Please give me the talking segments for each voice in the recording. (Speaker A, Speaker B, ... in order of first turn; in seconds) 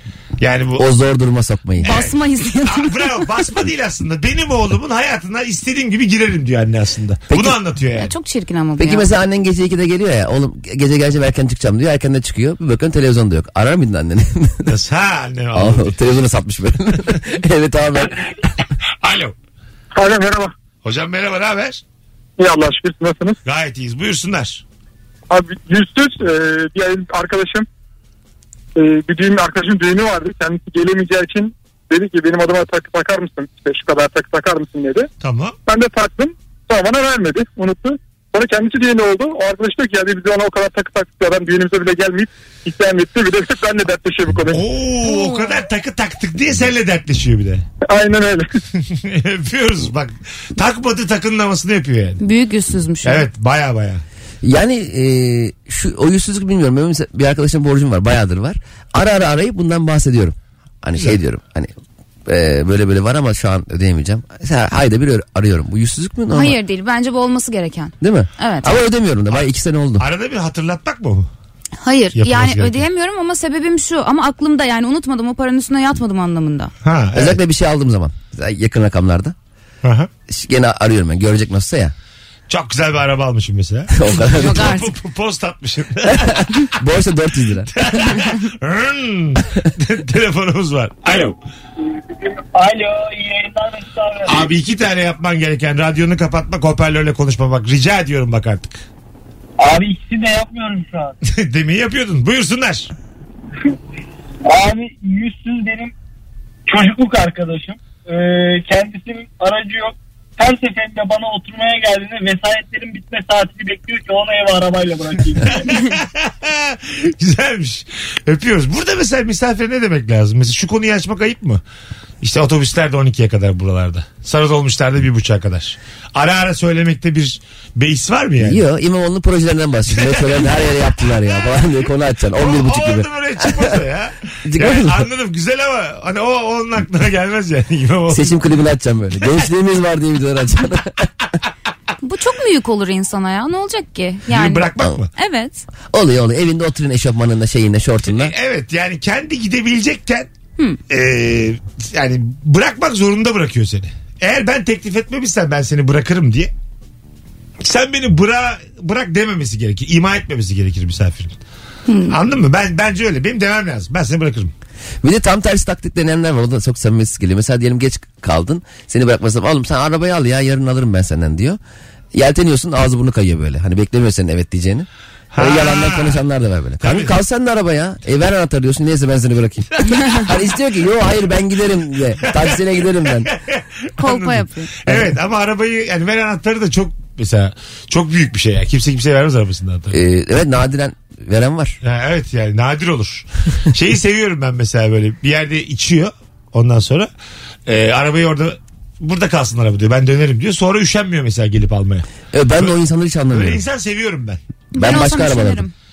Speaker A: 0.4-0.8, 1.8-8.1, 14.7-15.9, 19.0-19.3, 20.8-21.8, 23.4-24.6, 35.2-35.6, 44.5-47.6, 48.8-52.2, 53.0-54.0, 70.0-71.3, 72.2-72.9, 76.8-77.4, 79.8-80.1, 82.5-86.5, 87.7-91.4, 94.3-98.8, 101.2-102.9, 115.5-121.6, 122.2-128.6, 129.9-130.5, 132.4-138.4, 144.3-145.1, 148.1-150.3, 150.9-156.5, 157.6-161.4, 162.1-164.5, 175.3-176.2, 176.8-177.2, 183.1-190.0, 191.8-197.1, 197.7-202.1, 203.3-204.4
Speaker B: 0.8-1.9, 7.3-7.6, 8.8-14.7, 15.5-18.2, 54.4-61.7, 62.3-66.6, 68.0-70.1, 77.2-79.3, 80.3-81.9, 83.9-84.8, 86.1-87.7, 128.4-133.7, 134.5-135.1, 138.1-141.1, 145.9-148.3, 165.0-171.6, 172.1-174.9, 175.4-183.3, 184.9-185.1, 189.9-191.8, 202.3-203.6, 204.7-205.7
Speaker C: 1.8-3.1, 7.9-9.1, 45.0-45.5, 52.2-53.2, 66.3-68.8, 71.8-76.7, 84.2-84.9, 142.0-145.7, 161.9-162.2, 184.0-184.7, 204.7-205.7
Speaker D: 19.9-20.5, 22.4-23.4, 25.3-27.7, 28.8-35.1, 35.7-44.6, 47.9-48.5
Speaker E: 92.5-94.5, 99.6-101.2, 104.4-105.9, 106.7-115.7